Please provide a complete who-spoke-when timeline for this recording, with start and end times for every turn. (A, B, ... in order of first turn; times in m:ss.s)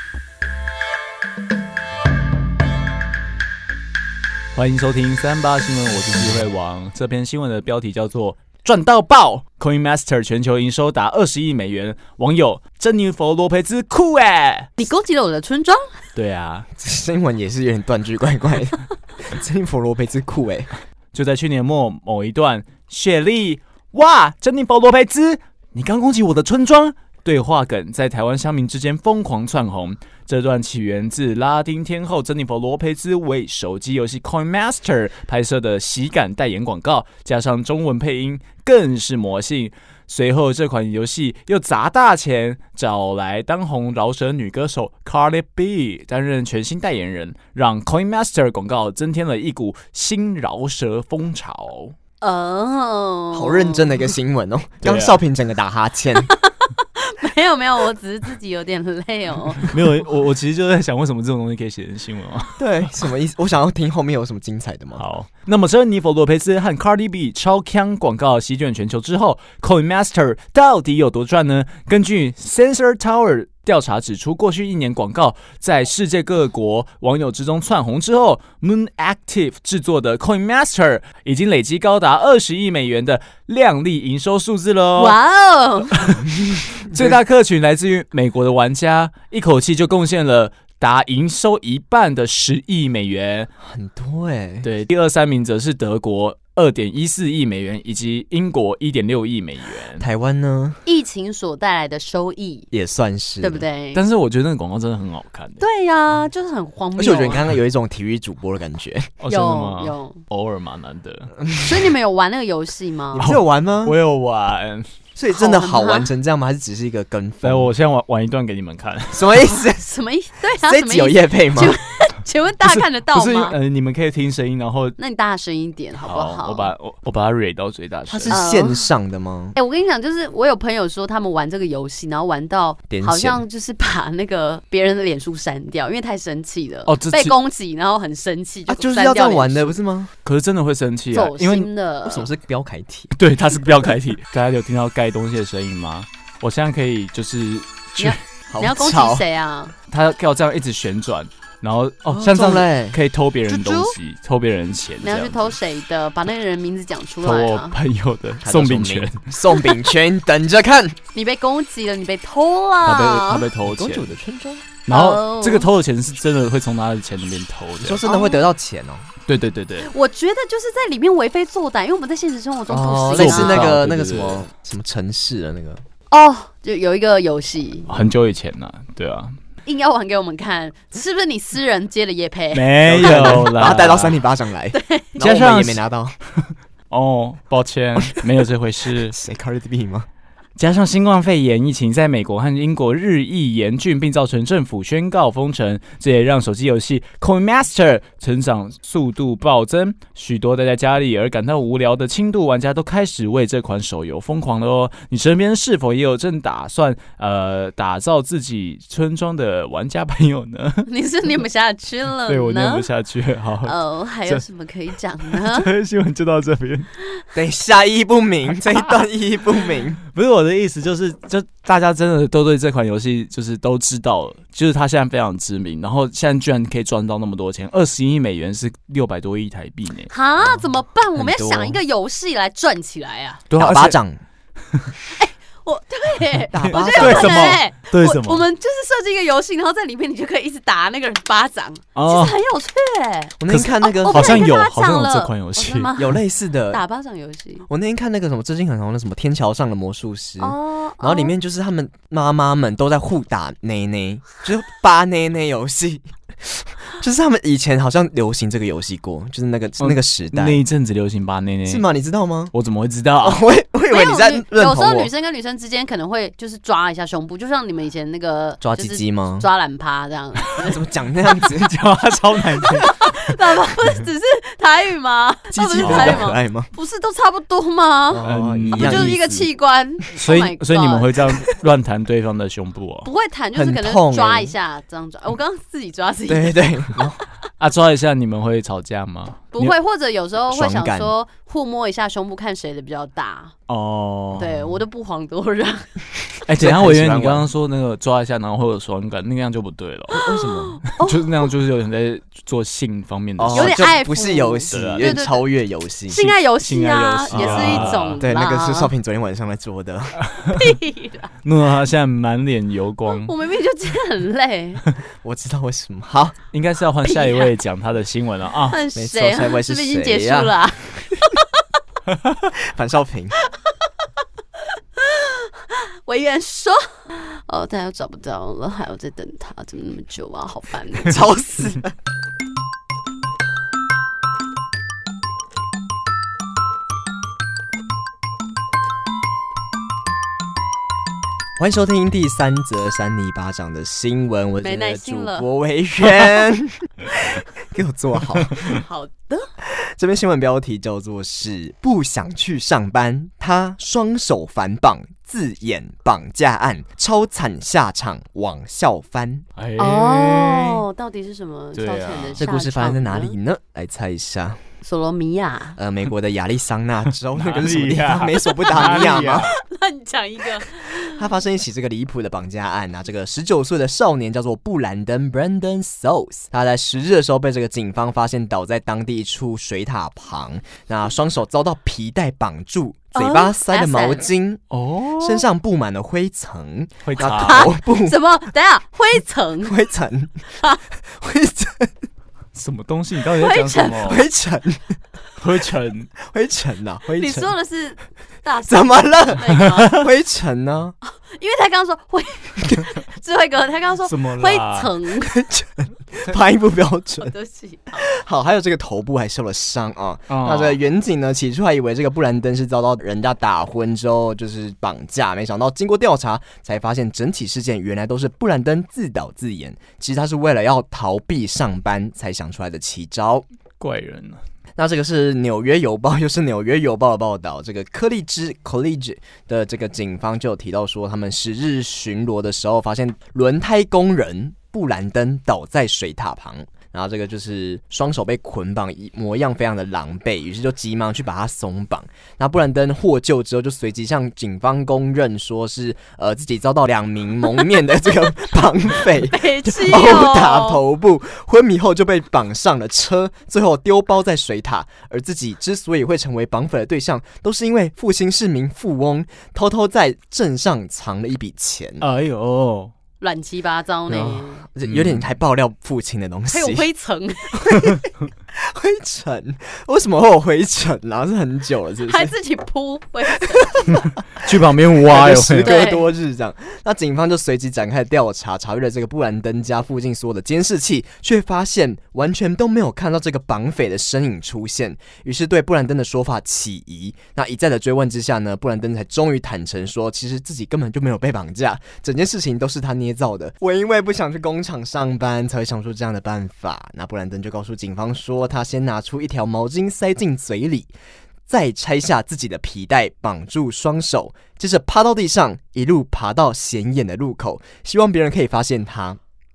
0:04.6-0:14.7 A
0:14.8-0:16.0 B
0:16.2-0:16.7 A
0:16.8-0:20.7 C
0:21.1-0:52.0 A
0:52.2-0:54.0 B
0:53.3-0:56.3 C
0:54.8-0:55.2 A
0:56.2-0:59.8 B
0:59.6-1:02.6 A
1:02.6-1:05.0 C
1:05.0-1:25.2 A
1:25.0-1:26.1 B
1:25.9-1:26.3 A
1:26.3-1:27.2 C
1:26.8-1:33.5 A
1:33.6-1:34.7 C
1:34.6-1:40.1 A
1:40.0-1:40.8 C
1:40.9-1:42.7 B
1:42.7-1:43.7 C
1:43.4-1:44.0 B
1:43.9-1:45.6 A
1:45.6-1:47.4 B
1:47.0-1:49.1 C
1:49.2-1:51.3 A
1:49.3-1:50.2 B
1:51.4-1:51.7 C
1:51.6-1:53.3 B
1:53.2-1:54.0 C
1:53.2-1:54.9 A
1:55.2-1:57.7 C
1:55.3-1:56.1 B
1:57.4-1:59.4 A
1:59.1-1:59.8 C
1:59.5-2:03.6 B
2:00.6-2:01.8 C
2:02.6-2:05.0 A
2:05.0-2:06.7 B
2:06.0-2:08.4 A
2:08.1-2:09.6 C
2:08.3-2:08.8 B
2:09.6-2:19.8 B
2:12.9-2:13.4 C
2:16.9-2:17.4 A
2:18.7-2:20.1 C
2:20.2-2:21.7 A
2:21.1-2:22.3 B
2:22.0-2:23.1 C
2:23.2-2:28.2 A
2:28.0-2:29.7 B
2:28.5-2:29.2 C
2:29.9-2:35.6 A
2:32.1-2:33.0 C
2:33.5-2:34.0 B
2:35.0-2:37.8 B
2:37.2-2:39.2 A
2:38.4-2:41.0 C
2:41.1-2:43.5 B
2:42.8-2:44.2 A
2:43.6-2:44.7 C
2:44.9-2:48.0 A
2:44.9-2:45.7 B
2:47.8-2:49.1 C
2:48.0-2:48.4 B
2:49.3-2:49.9 A
2:49.8-2:53.7 B
2:52.7-2:55.8 C
2:53.1-2:54.4 A
2:56.1-2:57.9 B
2:57.9-2:59.4 A
2:59.7-3:03.5 B
3:02.5-3:04.2 A
3:02.8-3:06.2 C
3:04.7-3:05.2 B
3:05.2-3:05.8 A
3:06.9-3:09.2 A
3:09.0-3:10.1 C
3:10.6-3:30.9 A
3:30.9-3:32.9 B
3:32.3-3:34.4 A
3:33.6-3:35.7 B
3:35.2-3:36.9 A
3:37.4-3:40.0 C
3:40.1-3:50.1 A
3:50.1-3:53.4 B
3:51.2-3:51.8 C
3:53.5-3:54.0 A
3:53.6-3:54.2 C
3:55.2-4:06.2 B
3:56.5-3:57.6 C
3:56.6-3:58.4 A
4:02.0-4:02.4 A
4:03.4-4:04.5 C
4:03.5-4:06.0 A
4:06.0-4:06.8 C
4:06.7-4:07.7 B
4:07.7-4:20.6 C
4:10.4-4:11.3 B
4:19.8-4:21.8 A
4:21.7-4:22.5 C
4:22.5-4:23.4 A
4:23.2-4:25.1 C
4:23.9-4:30.8 B
4:28.6-4:29.5 C
4:30.6-4:31.8 C
4:31.5-4:33.1 A
4:32.6-4:41.2 B
4:35.5-4:36.7 C
4:35.8-4:36.2 A
4:38.1-4:39.5 C
4:38.2-4:39.2 A
4:40.2-4:43.1 A
4:43.0-4:47.0 B
4:43.6-4:44.5 C
4:46.3-4:47.2 C
4:47.6-4:49.8 A
4:49.5-4:53.5 B
4:50.5-4:51.1 C
4:53.7-4:54.5 A
4:54.3-4:54.7 C
4:54.4-4:55.9 B
4:56.5-5:00.2 A
4:56.6-4:57.5 C
5:00.1-5:00.8 C
5:00.1-5:01.4 B
5:00.9-5:04.0 A
5:03.4-5:06.3 C
5:03.5-5:05.4 B
5:04.7-5:05.2 A
5:06.1-5:08.9 B
5:06.6-5:08.2 A
5:07.3-5:10.2 C
5:10.2-5:10.6 A
5:10.5-5:11.3 B
5:11.4-5:13.3 A
5:13.1-5:14.8 B
5:15.2-5:16.4 C
5:16.5-5:18.8 A
5:17.0-5:17.5 B
5:18.7-5:21.4 B
5:19.0-5:20.6 C
5:22.5-5:23.4 C
5:24.6-5:31.2 B
5:31.0-5:31.9 C
5:41.6-5:48.7 C
5:44.6-5:45.5 B
5:48.7-5:49.5 B
5:49.6-5:59.4 C
5:59.6-6:00.8 A
5:59.8-6:03.4 B
6:01.8-6:02.4 A
6:02.4-6:04.6 C
6:04.8-6:05.8 B
6:05.8-6:09.5 C
6:07.4-6:09.5 A
6:08.5-6:11.2 B
6:11.0-6:24.6 C
6:23.2-6:24.3 B
6:24.7-6:25.4 A
6:25.2-6:28.2 C
6:27.0-6:27.7 A
6:27.2-6:29.8 B
6:29.6-6:30.5 C
6:31.0-6:31.9 C
6:32.5-6:34.3 A
6:33.4-6:34.2 B
6:34.0-6:35.0 C
6:35.4-6:36.1 A
6:36.2-6:37.5 C
6:37.1-6:40.0 B
6:38.7-6:41.0 C
6:41.1-6:45.4 B
6:44.1-6:44.9 A
6:45.3-6:47.3 C
6:47.2-6:48.2 B
6:48.0-7:03.5 C
6:50.3-6:50.8 A
7:03.8-7:04.4 A
7:04.8-7:42.1 C
7:29.0-7:30.8 B
7:42.0-7:42.9 A
7:43.2-7:44.6 B
7:44.1-7:46.9 C
7:44.8-7:45.3 A
7:46.5-7:48.0 B
7:47.6-7:47.9 C
7:48.5-7:52.3 C
7:52.1-7:54.1 B
7:54.4-7:55.9 A
7:55.0-8:20.9 C
7:55.6-7:56.1 B
8:21.5-8:29.2 C